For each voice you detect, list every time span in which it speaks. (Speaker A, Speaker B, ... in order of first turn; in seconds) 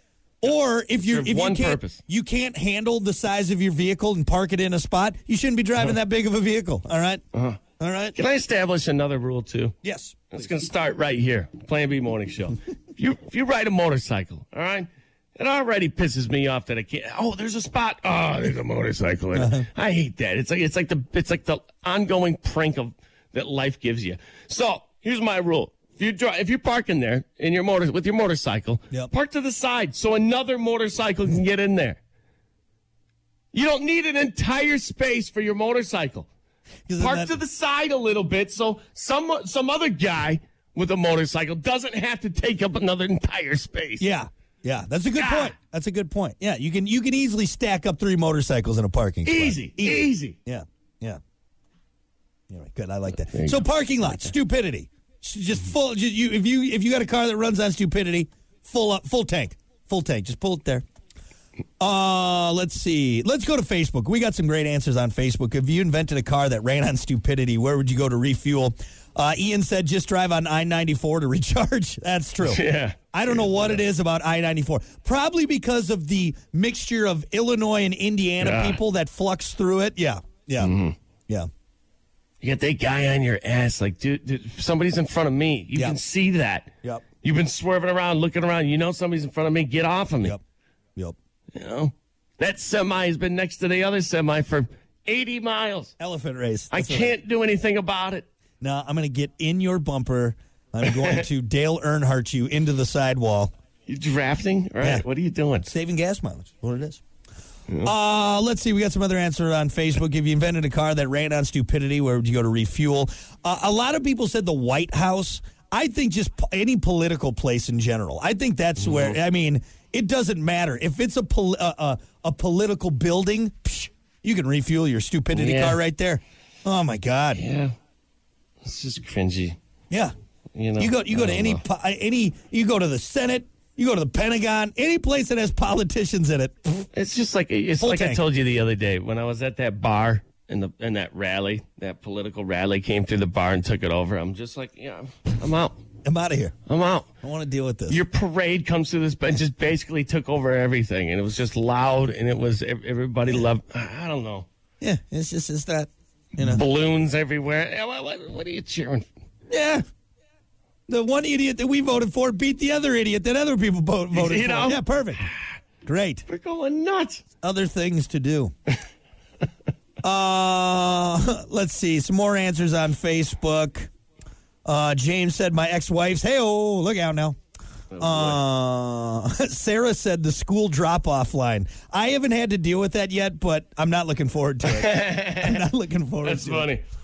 Speaker A: 0.4-7.2, 7.8-8.2, 9.8-10.5, 19.3-19.7, 36.9-37.4, 44.0-51.2, 52.5-60.8, 61.8-72.6, 73.1-80.7, 96.0-97.1, 98.6-103.5, 104.8-105.0, 105.6-107.0, 107.8-127.4, 130.8-136.8, 137.8-138.2, 146.0-146.5, 147.2-148.0, 154.8-156.6, 159.5-159.8, 160.9-165.2, 165.8-166.2, 167.4-168.5, 170.0-173.9, 174.6-177.4, 178.0-186.7
Speaker B: 1.0-2.0, 7.3-7.6, 8.1-9.7, 10.3-32.0, 33.5-36.3, 37.0-44.1, 45.1-45.5, 49.2-50.4, 53.3-53.6, 72.4-73.8, 78.4-78.8, 80.6-80.9, 82.4-90.4, 91.5-95.9, 96.7-98.3, 100.8-101.2, 103.9-105.7, 118.8-119.2, 125.3-125.8, 127.3-127.7, 128.6-129.6, 130.5-131.6, 136.9-145.8, 146.7-147.1, 147.9-154.5, 156.4-159.1, 164.1-165.5, 166.3-167.2, 177.9-178.4, 184.6-185.6, 186.2-186.8